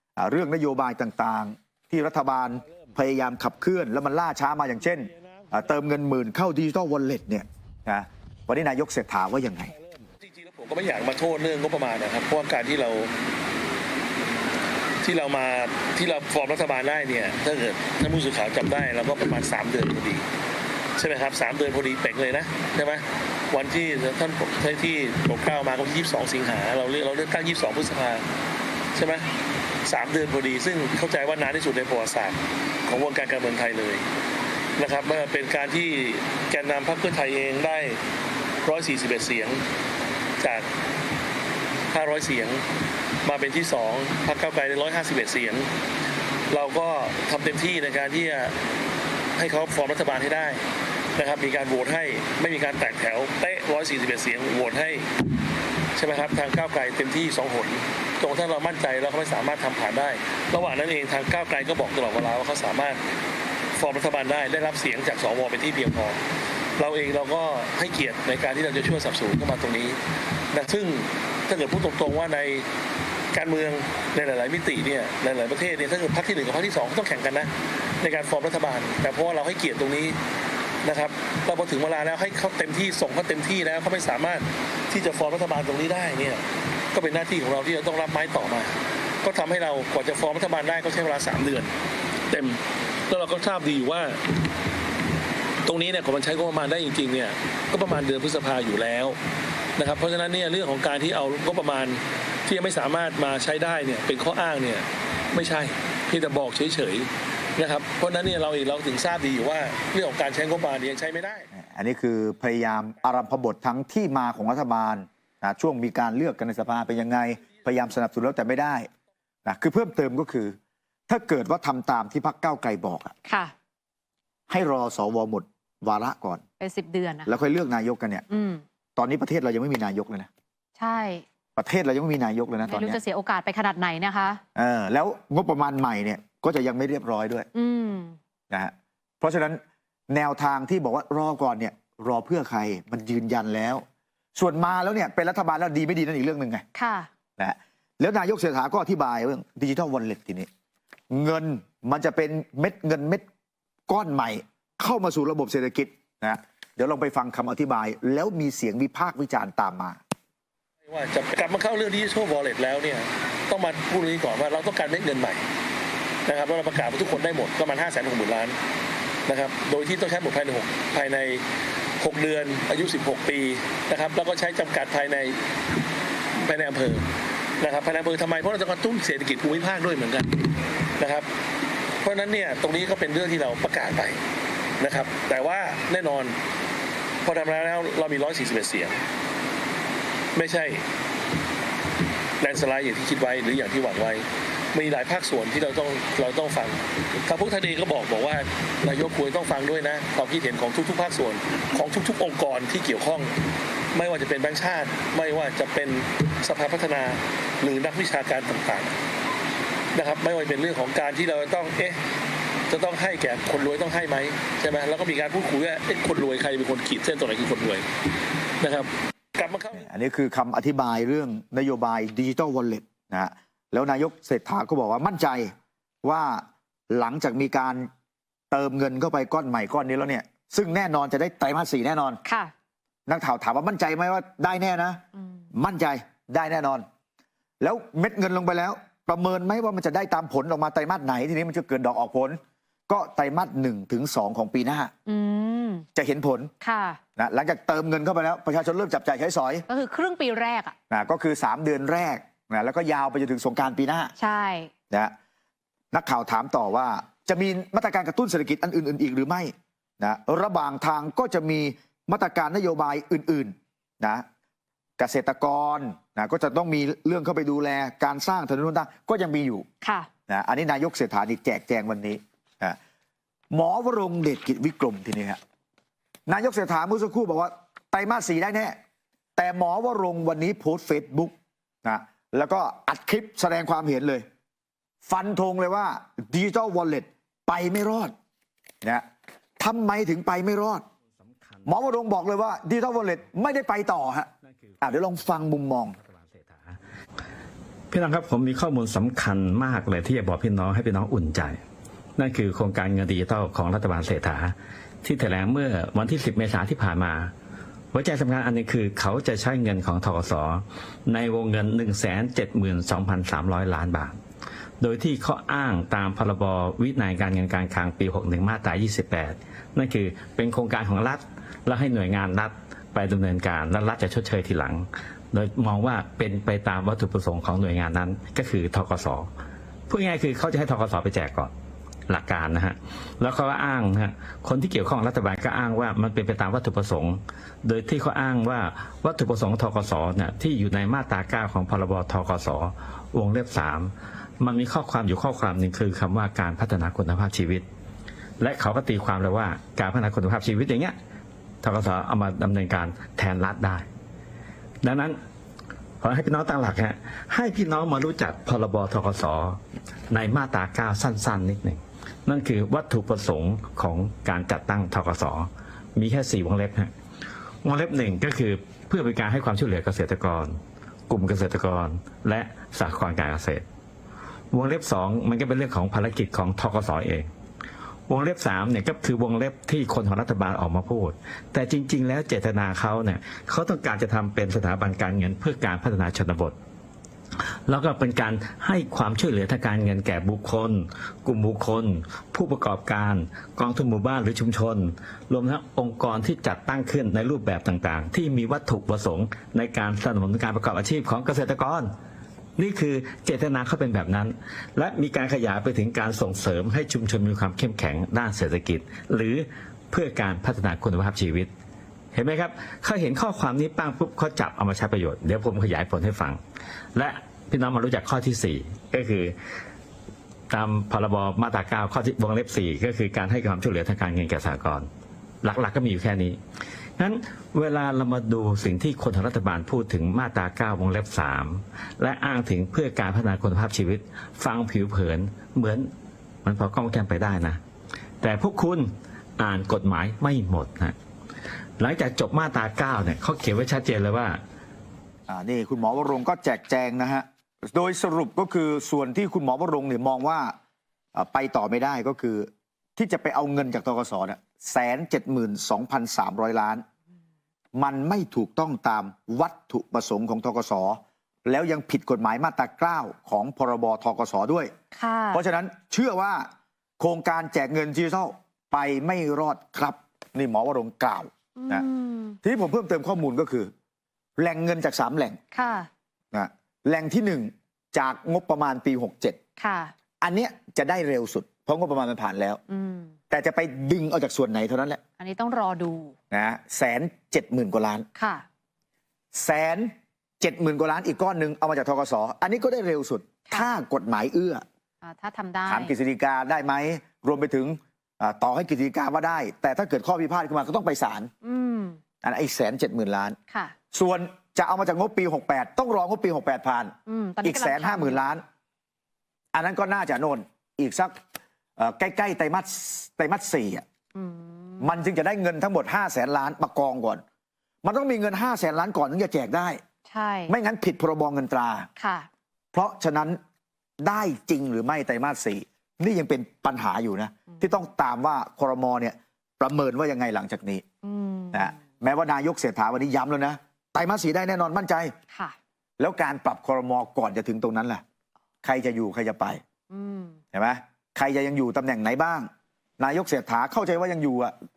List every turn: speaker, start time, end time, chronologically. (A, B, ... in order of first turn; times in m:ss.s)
0:00.2-0:09.7 A
0:05.1-0:05.5 B
0:09.9-0:13.1 B
0:15.0-0:20.2 B
0:21.0-0:28.2 B
0:28.9-0:29.3 B
0:29.8-0:34.0 B
0:34.8-0:38.0 B
0:38.6-0:39.6 B
0:40.4-0:40.6 B
0:41.9-0:42.6 B
0:43.2-0:45.7 B
0:46.5-0:48.5 B
0:49.4-0:50.6 B
0:51.2-0:55.1 B
0:56.0-1:03.0 B
1:03.8-1:06.2 B
1:06.8-1:10.0 B
1:10.5-1:12.7 B
1:13.3-1:20.2 B
1:20.8-1:31.7 B
1:32.3-1:34.2 B
1:35.6-1:39.2 B
1:39.8-1:51.5 B
1:51.5-1:58.9 A
1:59.4-2:00.6 A
2:01.1-2:03.1 A
2:03.2-2:03.5 C
2:04.5-2:06.4 A
2:06.6-2:07.3 C
2:07.2-2:08.2 A
2:08.3-2:08.6 C
2:09.0-2:10.3 A
2:10.8-2:11.2 C
2:11.6-2:13.0 A
2:12.7-2:14.4 C
2:14.5-2:17.5 A
2:17.5-2:18.2 C
2:18.5-2:23.8 A
2:24.4-2:26.6 A
2:26.7-2:27.1 C
2:27.4-2:30.5 A
2:31.1-2:33.2 A
2:33.9-2:40.0 A
2:40.9-2:45.4 B
2:46.2-2:48.6 B
2:49.2-2:51.4 B
2:52.0-2:55.4 B
2:56.4-2:57.0 B
2:57.6-3:00.5 B
3:01.0-3:01.3 B
3:02.0-3:04.2 B
3:04.8-3:06.4 B
3:07.2-3:09.0 B
3:10.3-3:10.8 B
3:12.4-3:23.3 B
3:23.9-3:28.9 B
3:29.9-3:32.0 B
3:32.7-3:37.8 B
3:38.6-3:39.8 B
3:39.7-3:47.9 A
3:48.5-3:52.2 A
3:52.2-3:52.5 C
3:53.1-3:56.8 A
3:55.2-3:55.4 C
3:57.6-4:04.9 A
4:05.0-4:05.8 C
4:05.9-4:06.5 A
4:06.6-4:07.0 C
4:07.2-4:09.6 A
4:09.7-4:10.7 C
4:10.9-4:14.1 A
4:14.2-4:14.7 C
4:15.9-4:24.2 A
4:25.0-4:29.6 A
4:29.8-4:30.1 C
4:30.3-4:32.8 A
4:33.5-4:35.4 A
4:36.3-4:38.8 A
4:39.4-4:41.3 A
4:41.8-4:44.2 A
4:45.0-4:48.1 A
4:49.6-4:50.8 A
4:51.2-4:51.6 D
4:51.6-4:54.3 A
4:54.4-4:54.7 D
4:54.8-4:56.0 A
4:56.0-4:56.8 D
4:57.9-5:01.6 D
5:02.2-5:07.3 D
5:07.9-5:14.2 D
5:14.8-5:29.3 D
5:29.9-5:31.5 D
5:32.1-5:47.6 D
5:48.4-5:50.9 D
5:51.6-5:53.9 D
5:54.8-5:55.2 D
5:56.0-5:59.6 D
6:00.1-6:06.9 D
6:07.6-6:10.6 D
6:11.1-6:13.6 D
6:14.5-6:17.3 D
6:18.1-6:26.6 D
6:27.7-6:41.9 D
6:42.6-6:51.5 D
6:52.1-6:56.4 D
6:57.0-6:59.3 D
7:00.5-7:04.9 D
7:05.4-7:06.4 D
7:07.0-7:15.9 D
7:16.4-7:17.6 D
7:18.2-7:20.9 D
7:21.8-7:24.4 D
7:25.3-7:30.5 A
7:31.1-7:36.8 A
7:37.7-7:44.7 A
7:44.9-7:45.4 C
7:45.3-7:46.5 A
7:47.0-7:51.8 A
7:51.6-7:52.4 C
7:52.4-7:53.7 A
7:54.4-7:55.4 A
7:55.5-7:55.9 C
7:56.3-7:59.4 A
7:59.6-7:59.9 C
8:00.2-8:02.6 A
8:02.7-8:03.1 C
8:03.3-8:05.0 A
8:05.2-8:06.1 C
8:06.3-8:08.0 A
8:08.1-8:08.4 C
8:09.3-8:14.6 A
8:15.0-8:15.9 C
8:15.7-8:21.3 A
8:21.4-8:22.0 C
8:22.2-8:23.4 A
8:23.5-8:23.7 C
8:23.9-8:28.4 A
8:27.1-8:28.2 C
8:29.5-8:31.2 A
8:31.8-8:33.8 A
8:34.1-8:34.9 C
8:34.8-8:37.2 A
8:37.8-8:39.8 A
8:40.1-8:40.5 C
8:40.5-8:41.9 A
8:42.0-8:42.3 C
8:42.7-8:43.4 A
8:44.0-8:50.8 A
8:51.0-8:51.8 C
8:51.5-8:55.1 A
8:56.0-8:58.0 A
8:58.6-8:59.6 A
8:59.9-9:00.4 C
9:00.5-9:04.5 A